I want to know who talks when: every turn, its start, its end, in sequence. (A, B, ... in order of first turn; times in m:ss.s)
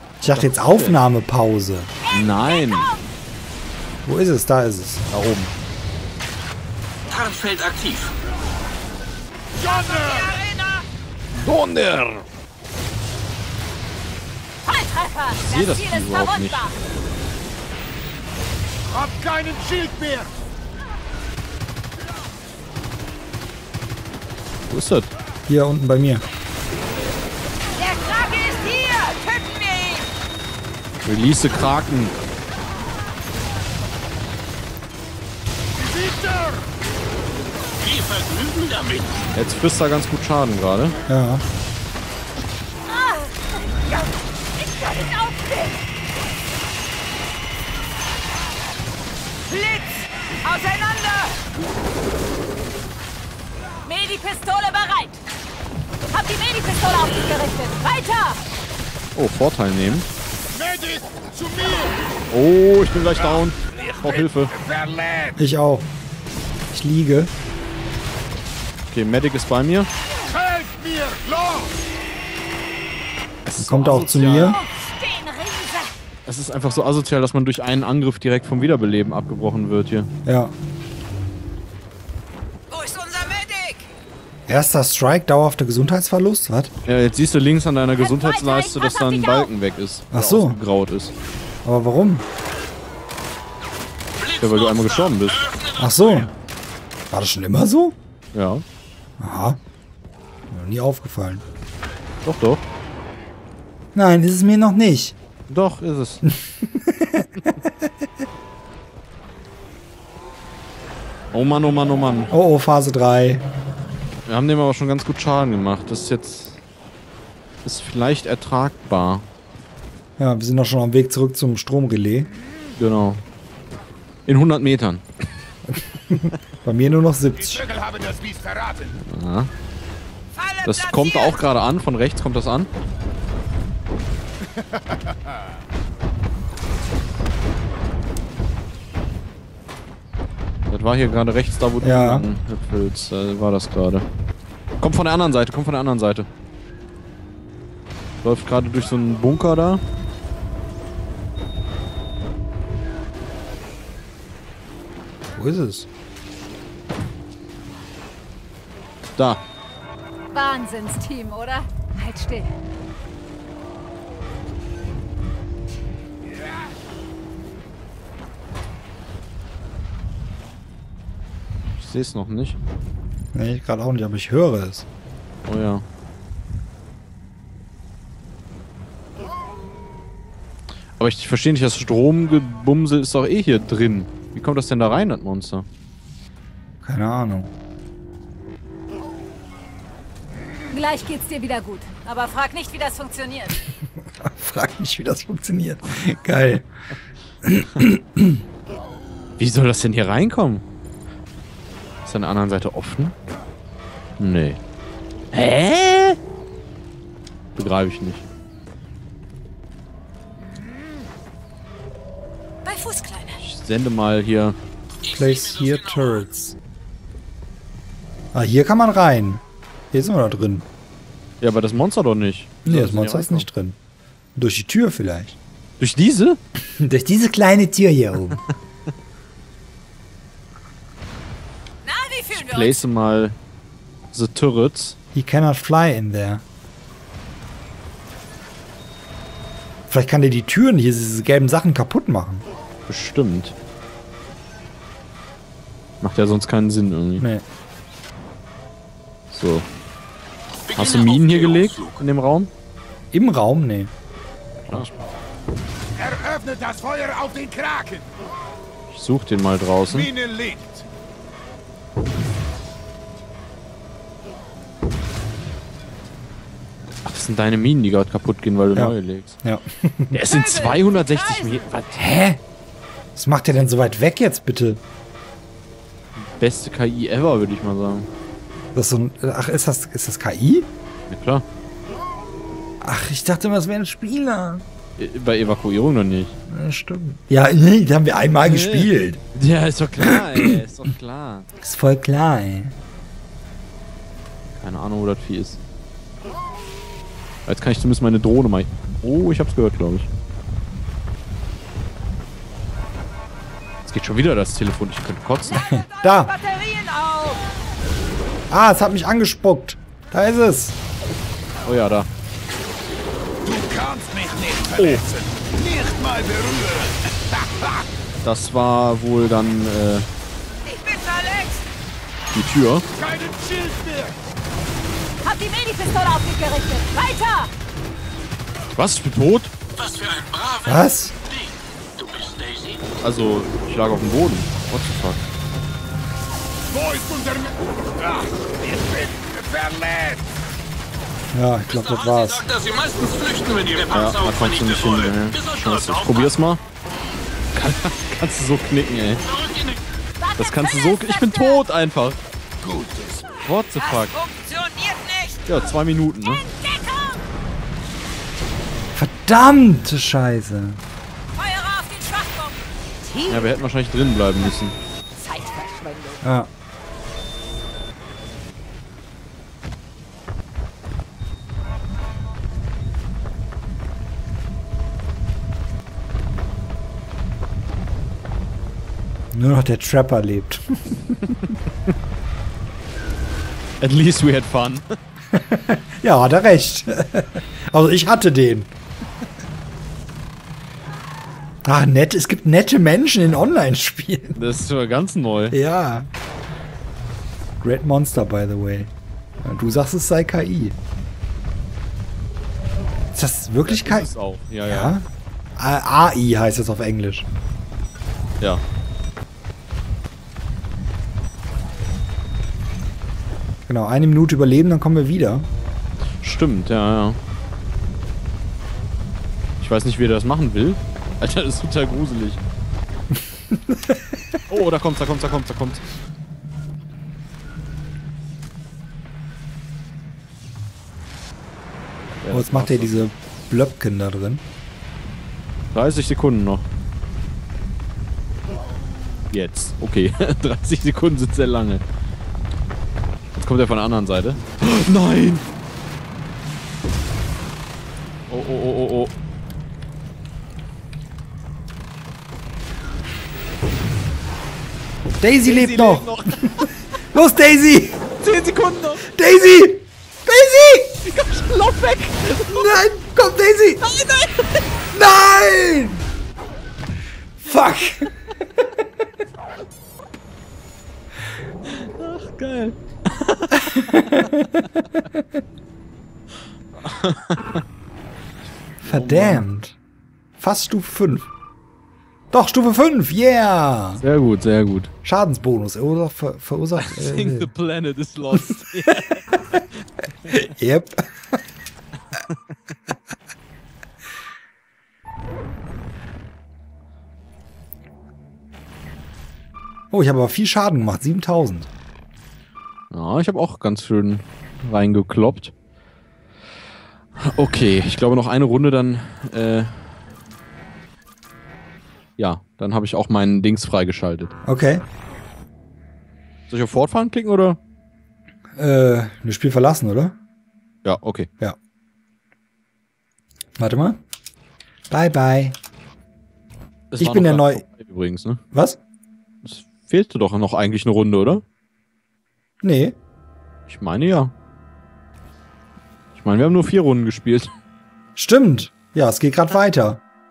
0:00.2-0:01.9 A
0:00.2-0:01.0 B
0:02.1-0:03.0 B
0:04.0-0:05.0 A
0:05.1-0:05.5 B
0:07.3-0:08.0 C
0:09.6-0:10.8 D
0:09.7-0:10.4 E
0:11.4-0:12.2 B
0:14.6-0:16.8 D
0:15.4-0:16.6 B
0:18.9-0:20.3 E
0:24.7-0:25.1 B
0:25.5-0:26.2 A
0:27.8-0:30.1 D
0:31.0-0:32.1 B
0:37.8-0:39.0 C
0:39.3-0:40.9 B
0:41.1-0:41.4 A
0:42.9-0:45.8 D
0:49.4-0:51.4 D
0:53.8-0:55.2 D
0:56.1-0:58.4 D
0:59.1-1:00.0 B
1:00.5-1:01.9 E
1:02.3-1:04.6 B
1:04.7-1:05.3 E
1:05.4-1:05.9 A
1:06.7-1:07.3 A
1:08.9-1:09.9 B
1:10.3-1:11.7 E
1:13.4-1:14.6 B
1:13.6-1:14.6 A
1:14.3-1:15.9 D
1:16.2-1:20.1 B
1:20.2-1:20.5 A
1:22.7-1:23.8 D
1:24.5-1:26.7 A
1:26.8-1:31.1 B
1:28.0-1:29.5 D
1:30.1-1:30.6 A
1:31.6-1:32.2 A
1:34.4-1:35.5 B
1:35.8-1:36.3 A
1:37.1-1:38.0 A
1:38.3-1:38.6 B
1:39.2-1:39.6 A
1:40.5-1:41.4 A
1:42.2-1:42.6 B
1:43.9-1:45.1 A
1:45.5-1:46.2 B
1:46.2-1:47.7 A
1:51.3-1:52.3 B
1:52.3-1:53.4 A
1:54.2-1:56.6 B
1:57.6-1:59.3 B
2:00.2-2:02.3 A
2:02.8-2:03.2 B
2:04.2-2:05.0 B
2:06.1-2:07.7 A
2:07.6-2:08.9 E
2:09.0-2:09.5 B
2:10.4-2:11.4 D
2:10.6-2:12.7 B
2:20.7-2:24.0 B
2:21.8-2:22.3 A
2:24.8-2:26.3 B
2:28.2-2:29.8 B
2:35.3-2:35.9 A
2:40.3-2:42.5 D
2:51.8-2:52.6 B
2:53.3-2:54.8 A
2:55.4-2:55.8 B
3:01.0-3:05.6 B
3:06.8-3:07.5 A
3:10.7-3:13.6 D
3:14.2-3:16.7 A
3:17.4-3:18.4 A
3:19.4-3:20.6 B
3:22.0-3:23.1 B
3:24.2-3:24.6 B
3:25.3-3:26.2 B
3:27.5-3:28.2 B
3:32.6-3:33.4 D
3:33.4-3:34.6 B
3:35.0-3:36.6 A
3:38.3-3:40.7 A
3:41.4-3:43.4 B
3:42.6-3:43.8 A
3:44.4-3:45.4 A
3:45.8-3:46.4 B
3:46.6-3:48.4 A
3:51.8-3:52.8 D
3:52.3-3:53.4 B
3:54.1-3:55.0 B
3:55.1-3:56.4 A
3:59.9-4:02.4 A
4:02.9-4:03.5 B
4:06.0-4:07.2 B
4:07.2-4:07.4 A
4:09.3-4:09.7 B
4:10.7-4:12.5 B
4:13.1-4:13.9 A
4:16.0-4:18.1 E
4:18.9-4:20.1 B
4:20.1-4:20.8 E
4:27.0-4:29.4 B
4:28.7-4:30.2 A
4:30.1-4:31.9 B
4:30.3-4:31.9 D
4:31.9-4:32.4 A
4:33.2-4:34.8 A
4:36.2-4:38.1 B
4:38.7-4:40.7 A
4:41.1-4:41.4 B
4:42.8-4:44.6 A
4:45.0-4:46.3 B
4:46.5-4:49.2 A
4:48.4-4:51.5 B
4:51.6-4:52.8 A
4:54.6-4:55.6 B
4:57.4-5:00.1 B
5:03.8-5:05.7 B
5:05.5-5:06.3 A
5:05.6-5:07.4 D
5:08.5-5:10.8 A
5:11.6-5:12.1 B
5:13.4-5:17.0 E
5:14.7-5:15.0 B
5:18.2-5:20.0 B
5:20.6-5:21.6 D
5:22.3-5:22.8 B
5:23.0-5:24.1 E
5:25.2-5:27.5 D
5:28.7-5:29.5 B
5:29.8-5:30.6 C
5:30.6-5:31.1 A
5:32.0-5:32.7 C
5:33.0-5:35.2 B
5:36.7-5:37.5 E
5:38.0-5:40.2 E
5:41.3-5:42.6 A
5:42.6-5:43.9 C
5:43.9-5:46.6 B
5:47.5-5:49.2 B
5:50.2-5:51.6 D
5:50.4-5:52.2 B
5:52.6-5:53.2 E
5:53.4-5:54.2 B
5:53.8-5:54.7 E
5:54.2-5:55.7 D
5:55.5-5:56.4 B
5:56.2-5:57.2 D
5:58.9-6:00.8 A
6:01.3-6:02.6 D
6:03.0-6:03.4 E
6:03.2-6:04.8 B
6:05.2-6:06.2 D
6:06.2-6:06.5 A
6:19.3-6:21.3 A
6:23.8-6:24.8 B
6:25.3-6:28.7 A
6:31.6-6:34.4 A
6:34.3-6:35.6 B
6:35.5-6:36.1 A
6:37.6-6:40.8 A
6:43.1-6:44.1 A
6:43.6-6:44.9 B
6:44.6-6:47.3 A
6:53.7-6:55.5 A
6:56.2-6:57.2 B
6:59.6-7:02.4 B
7:03.5-7:04.0 A
7:04.5-7:05.8 B
7:12.2-7:13.1 B
7:12.3-7:14.4 A
7:15.7-7:16.7 B
7:19.3-7:21.8 B
7:23.3-7:25.4 B
7:28.3-7:29.1 B
7:35.2-7:38.0 A
7:35.4-7:36.6 B
7:38.2-7:39.1 B
7:39.0-7:40.8 A
7:41.0-7:42.8 B
7:42.5-7:43.8 A
7:43.8-7:44.6 B
7:44.9-7:46.0 A
7:47.4-7:48.9 A
7:51.7-7:54.3 B
7:53.8-7:55.3 A
7:56.8-7:57.6 B
7:58.8-7:59.8 A
7:58.8-7:59.4 B
8:00.4-8:01.3 A
8:02.3-8:04.0 A
8:04.0-8:04.9 B
8:05.0-8:07.5 A
8:06.8-8:09.3 B
8:10.3-8:11.0 A
8:19.9-8:21.7 A
8:22.9-8:25.5 B
8:27.2-8:29.9 B
8:32.2-8:34.3 B
8:34.4-8:34.8 A
8:36.5-8:37.6 B
8:38.6-8:40.1 A
8:40.8-8:41.3 B
8:43.6-8:44.0 A
8:44.9-8:45.6 A
8:46.9-8:48.4 B
8:47.0-8:47.6 A
8:48.5-8:48.8 A
8:49.4-8:51.4 B
8:52.6-8:53.0 A
8:53.7-8:54.3 B
8:56.1-8:57.5 B
8:58.2-9:00.0 A